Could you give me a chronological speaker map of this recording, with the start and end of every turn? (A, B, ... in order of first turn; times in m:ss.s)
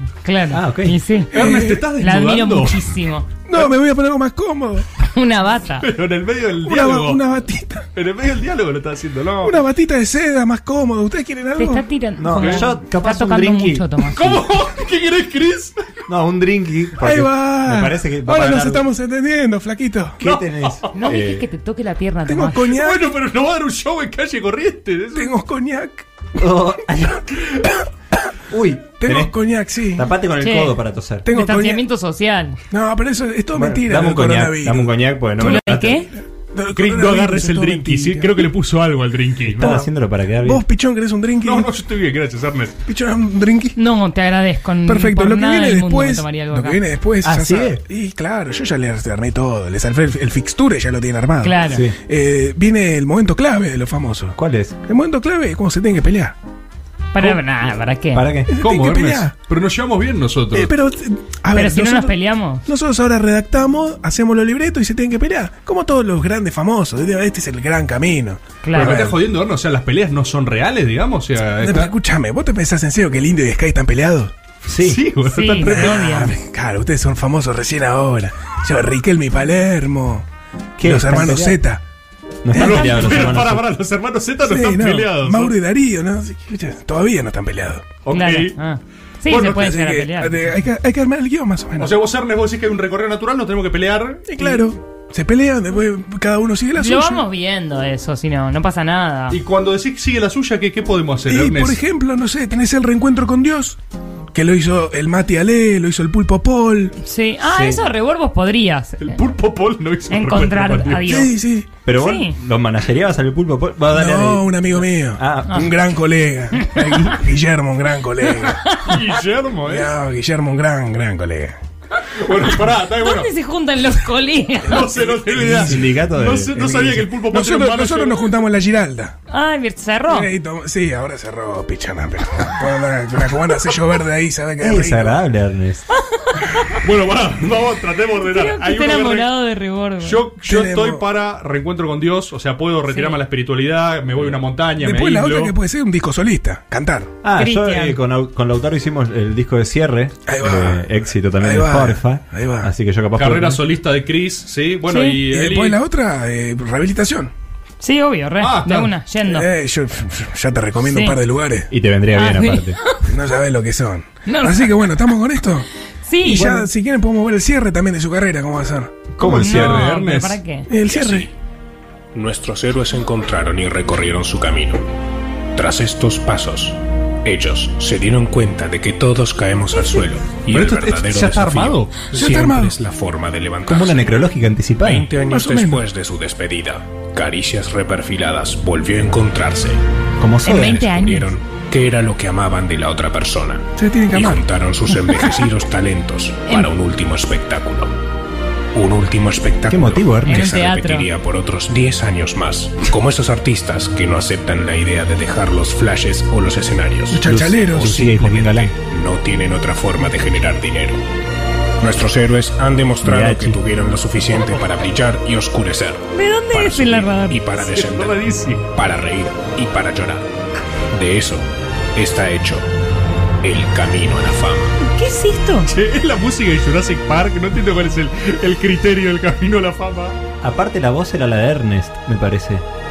0:00.2-0:01.4 A
0:00.5-0:01.0 B
0:01.3-0:02.8 C
0:01.3-0:01.9 D
0:02.0-0:03.3 A
0:03.4-0:04.9 D
0:05.0-0:05.9 A
0:05.8-0:07.2 C
0:06.6-0:07.8 D
0:07.9-0:09.6 C
0:09.4-0:11.9 D
0:11.6-0:14.4 A
0:12.2-0:14.4 B
0:12.4-0:12.7 C
0:14.1-0:15.9 C
0:16.1-0:18.8 B
0:17.0-0:20.2 D
0:20.2-0:21.4 B
0:20.2-0:20.9 C
0:20.9-0:22.8 A
0:22.3-0:23.1 D
0:22.6-0:25.3 C
0:25.1-0:26.1 D
0:26.4-0:27.2 B
0:27.5-0:27.9 D
0:28.5-0:29.3 B
0:29.0-0:30.1 D
0:29.9-0:31.2 B
0:30.4-0:30.8 A
0:31.2-0:31.8 D
0:31.3-0:32.6 A
0:32.7-0:38.4 D
0:33.5-0:36.0 B
0:35.4-0:36.1 A
0:36.8-0:39.8 C
0:39.5-0:40.6 B
0:39.5-0:41.7 D
0:41.4-0:42.7 C
0:42.8-0:43.8 D
0:43.7-0:46.8 A
0:44.8-0:56.4 D
0:47.2-0:47.8 B
0:51.4-0:51.8 A
0:51.7-0:51.9 B
0:54.3-0:54.7 B
0:57.1-0:58.3 A
0:58.1-0:58.5 B
0:58.5-0:59.3 D
0:58.6-1:00.7 C
1:00.5-1:09.1 D
1:01.5-1:02.6 A
1:08.6-1:09.0 A
1:08.7-1:11.9 C
1:11.6-1:14.3 D
1:14.7-1:15.0 B
1:14.8-1:16.3 C
1:15.3-1:16.3 A
1:15.6-1:20.2 D
1:20.8-1:21.6 B
1:20.8-1:21.8 D
1:22.4-1:23.6 B
1:22.5-1:23.2 D
1:22.6-1:25.5 C
1:24.4-1:27.8 D
1:28.0-1:28.5 C
1:28.1-1:30.5 A
1:29.3-1:29.7 C
1:29.5-1:31.9 D
1:31.8-1:34.3 C
1:34.3-1:37.2 D
1:34.4-1:34.6 A
1:36.8-1:39.4 A
1:39.3-1:41.8 C
1:41.2-1:43.8 D
1:44.3-1:46.9 D
1:47.0-1:49.2 A
1:47.5-1:47.8 B
1:49.0-1:51.1 C
1:50.1-1:51.3 A
1:51.0-1:51.7 D
1:51.8-1:55.7 B
1:52.0-1:52.3 A
1:53.9-1:58.6 D
1:56.5-1:57.1 A
1:58.3-1:59.0 A
1:58.8-1:59.9 C
1:59.6-2:01.6 D
2:02.1-2:03.3 C
2:02.8-2:04.9 A
2:04.7-2:08.3 C
2:04.7-2:06.0 D
2:05.5-2:07.0 B
2:06.8-2:09.2 D
2:09.3-2:10.3 A
2:10.1-2:15.2 D
2:14.6-2:15.8 B
2:15.9-2:16.8 A
2:16.8-2:19.3 C
2:18.3-2:20.2 A
2:20.0-2:25.5 C
2:20.4-2:21.0 D
2:22.9-2:23.2 A
2:24.1-2:24.4 B
2:24.8-2:27.1 D
2:27.2-2:33.6 B
2:27.3-2:28.0 A
2:30.3-2:32.7 D
2:33.2-2:35.8 C
2:34.9-2:35.2 A
2:35.3-2:37.3 D
2:37.8-2:39.5 A
2:38.4-2:38.9 C
2:39.2-2:41.7 D
2:40.8-2:41.2 A
2:41.7-2:42.8 B
2:42.1-2:43.1 A
2:43.0-2:45.7 D
2:44.2-2:44.9 A
2:46.0-2:46.7 A
2:46.2-2:48.9 D
2:49.2-2:49.9 B
2:49.2-2:50.4 C
2:49.3-2:50.7 A
2:50.7-2:51.3 D
2:50.8-2:51.3 E
2:52.1-2:54.8 E
2:55.6-3:04.2 E
3:00.5-3:02.1 C
3:02.1-3:02.7 D
3:03.7-3:05.1 B
3:04.8-3:09.8 E
3:05.1-3:05.8 D
3:10.2-3:10.8 B
3:10.4-3:11.3 A
3:10.5-3:17.9 E
3:13.8-3:14.4 D
3:18.7-3:31.0 E
3:19.7-3:20.5 B
3:20.2-3:21.1 A
3:27.1-3:27.9 D
3:27.2-3:28.7 B
3:31.8-3:40.2 E
3:33.0-3:33.6 B
3:36.1-3:37.4 A
3:37.6-3:38.6 C
3:40.9-3:42.6 E
3:43.4-3:44.7 E
3:44.9-3:45.7 A
3:45.7-3:50.2 C
3:50.4-3:52.6 B